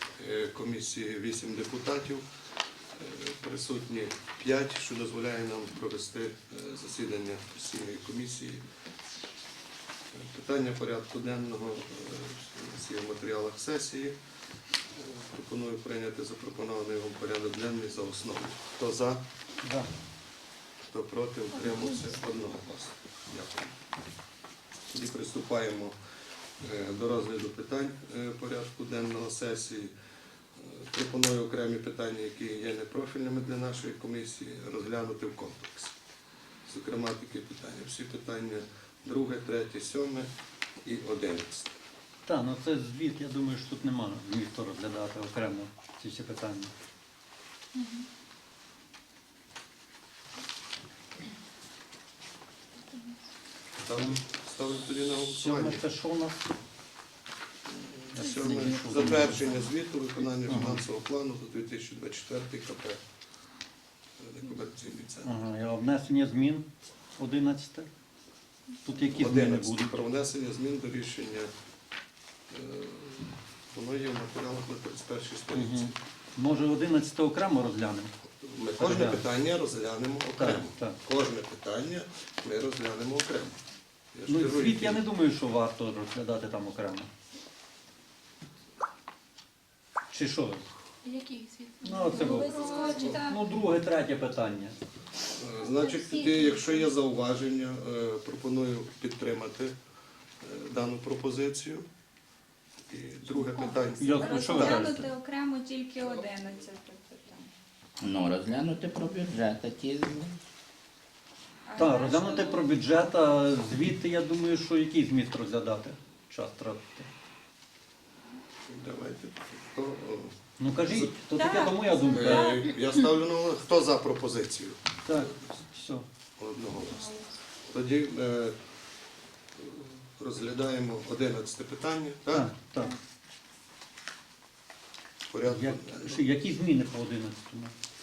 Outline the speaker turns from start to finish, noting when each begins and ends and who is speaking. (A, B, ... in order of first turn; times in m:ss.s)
0:00.2-0:02.2 A
0:03.0-0:08.6 A
0:10.1-0:14.2 A
0:15.0-0:19.2 A
0:19.6-0:19.9 B
0:20.9-0:23.7 A
0:24.9-0:26.0 A
0:26.6-0:29.9 A
0:30.6-0:35.9 A
0:36.6-0:40.3 A
0:40.8-0:41.7 A
0:42.3-0:46.7 B
0:47.8-0:48.1 C
0:52.9-0:53.1 C
0:53.8-0:55.8 A
0:54.0-0:54.2 B
0:55.3-0:56.4 B
0:57.7-1:03.0 A
0:58.1-0:59.5 B
0:58.2-0:59.7 C
1:00.5-1:00.8 B
1:04.2-1:05.4 A
1:05.2-1:06.7 B
1:07.2-1:07.9 B
1:08.8-1:10.0 B
1:09.0-1:11.5 A
1:12.5-1:16.0 A
1:15.5-1:18.1 B
1:18.4-1:23.6 A
1:18.8-1:19.2 B
1:20.4-1:21.0 B
1:24.1-1:25.0 A
1:24.3-1:27.1 B
1:30.1-1:30.7 B
1:31.0-1:33.2 D
1:31.8-1:32.6 B
1:32.2-1:33.4 C
1:32.9-1:33.2 A
1:33.2-1:34.8 B
1:35.3-1:39.8 A
1:35.6-1:36.9 C
1:40.4-1:41.9 A
1:42.9-1:44.9 A
1:43.3-1:47.5 C
1:44.0-1:45.1 B
1:48.0-1:50.4 E
1:51.6-1:52.8 C
1:51.8-1:57.1 B
1:58.7-2:01.2 A
2:00.6-2:02.6 B
2:01.4-2:02.8 C
2:02.1-2:05.6 A
2:05.1-2:06.0 B
2:06.4-2:07.1 A
2:06.8-2:07.4 C
2:07.7-2:08.6 A
2:09.6-2:12.5 A
2:12.3-2:12.9 B
2:15.3-2:16.3 A
2:15.4-2:17.7 B